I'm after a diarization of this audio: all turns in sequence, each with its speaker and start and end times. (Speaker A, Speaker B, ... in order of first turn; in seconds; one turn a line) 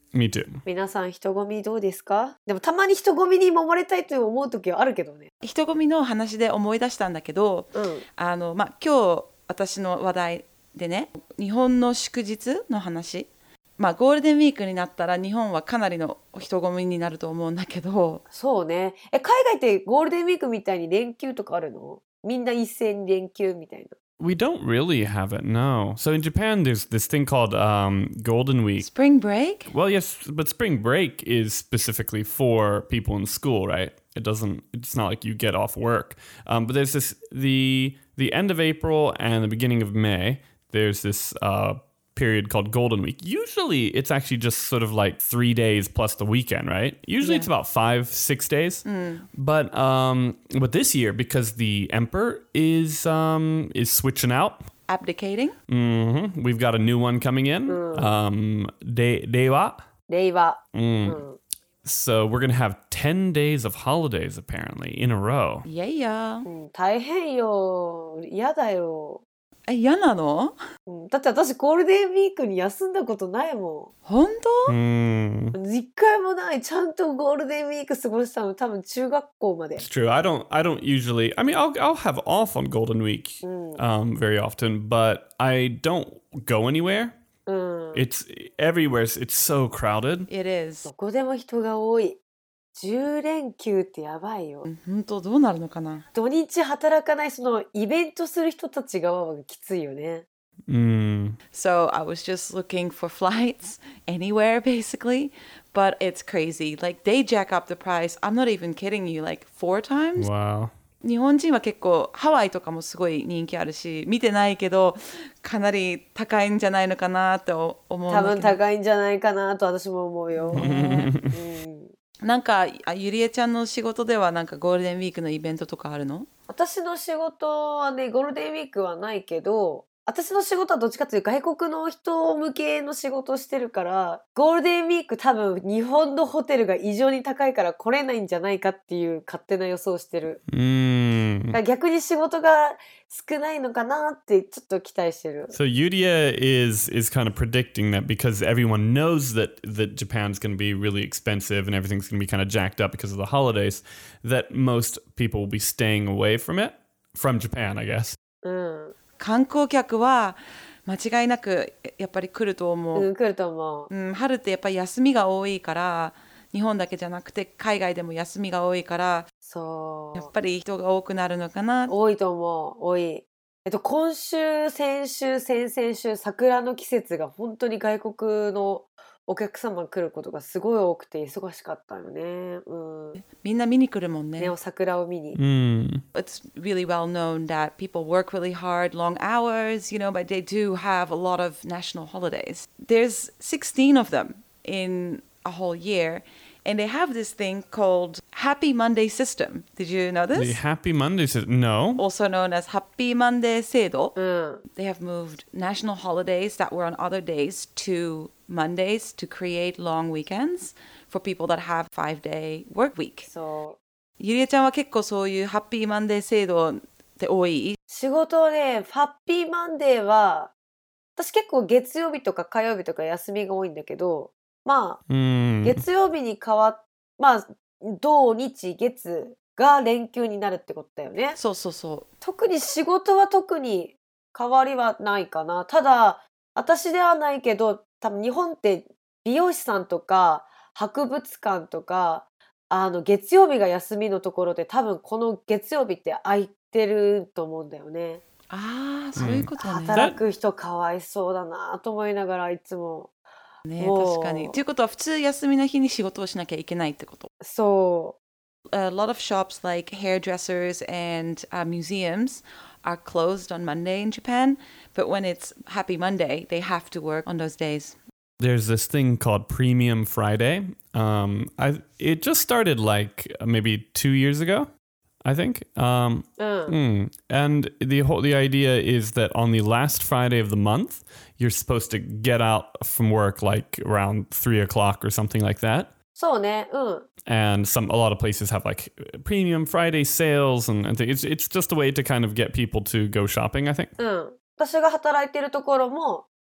Speaker A: 0.1-0.6
Speaker B: 0.7-5.3
Speaker C: 5.4-18.2
Speaker B: 7.8-8.0
Speaker B: 18.3-23.9
Speaker A: 24.2-28.9
Speaker C: 28.8-29.7
Speaker A: 29.7-54.6
Speaker C: 47.2-47.5
Speaker C: 48.9-49.2
Speaker C: 54.9-55.6
Speaker A: 55.7-59.8
Speaker B: 57.7-58.1
Speaker B: 60.1-61.4
Speaker A: 60.7-61.2
Speaker A: 61.8-65.7
Speaker C: 65.7-66.5
Speaker B: 66.5-69.2
Speaker C: 69.7-70.6
Speaker B: 70.9-73.9
Speaker C: 74.1-74.8
Speaker A: 74.7-75.6
Speaker B: 75.5-79.8
Speaker A: 79.8-87.2
Speaker B: 83.4-83.8
Speaker B: 87.5-88.0
Speaker A: 87.9-90.3
Speaker C: 90.3-90.9
Speaker B: 90.9-92.2
Speaker B: 92.8-94.7
Speaker C: 94.7-96.0
Speaker B: 96.1-100.2
Speaker A: 100.7-101.4
Speaker C: 101.5-110.3
Speaker A: 110.2-110.7
Speaker C: 111.0-118.6
Speaker B: 118.1-121.9
Speaker C: 120.4-121.1
Speaker A: 120.5-121.4
Speaker C: 122.2-126.3
Speaker B: 126.5-140.4
Speaker A: 140.5-141.6
Speaker B: 141.5-145.6
Speaker A: 145.5-158.2
Speaker B: 158.4-158.9
Speaker C: 159.2-163.1
Speaker B: 162.9-163.9
Speaker C: 163.9-169.3
Speaker B: 169.4-170.3
Speaker C: 170.2-171.9
Speaker B: 171.9-183.2
Speaker C: 183.2-184.5
Speaker B: 184.4-185.4
Speaker A: 185.3-186.0
Speaker C: 186.1-200.6
Speaker A: 200.3-202.0
Speaker C: 202.0-204.2
Speaker B: 204.2-204.6
Speaker C: 204.8-213.3
Speaker B: 213.3-213.8
Speaker C: 214.2-217.8
Speaker B: 217.9-220.5
Speaker B: 221.2-225.0
Speaker A: 225.1-225.8
Speaker B: 225.6-231.4
Speaker C: 231.4-232.1
Speaker B: 232.2-248.2
Speaker C: 248.5-250.1
Speaker A: 249.2-250.2
Speaker B: 249.6-253.1
Speaker C: 253.7-257.3
Speaker B: 253.8-254.6
Speaker B: 257.4-258.2
Speaker C: 258.7-268.0
Speaker A: 268.4-274.7
Speaker A: 275.2-285.9
Speaker B: 276.4-276.8
Speaker B: 286.1-287.1
Speaker A: 287.3-293.9
Speaker B: 294.0-296.3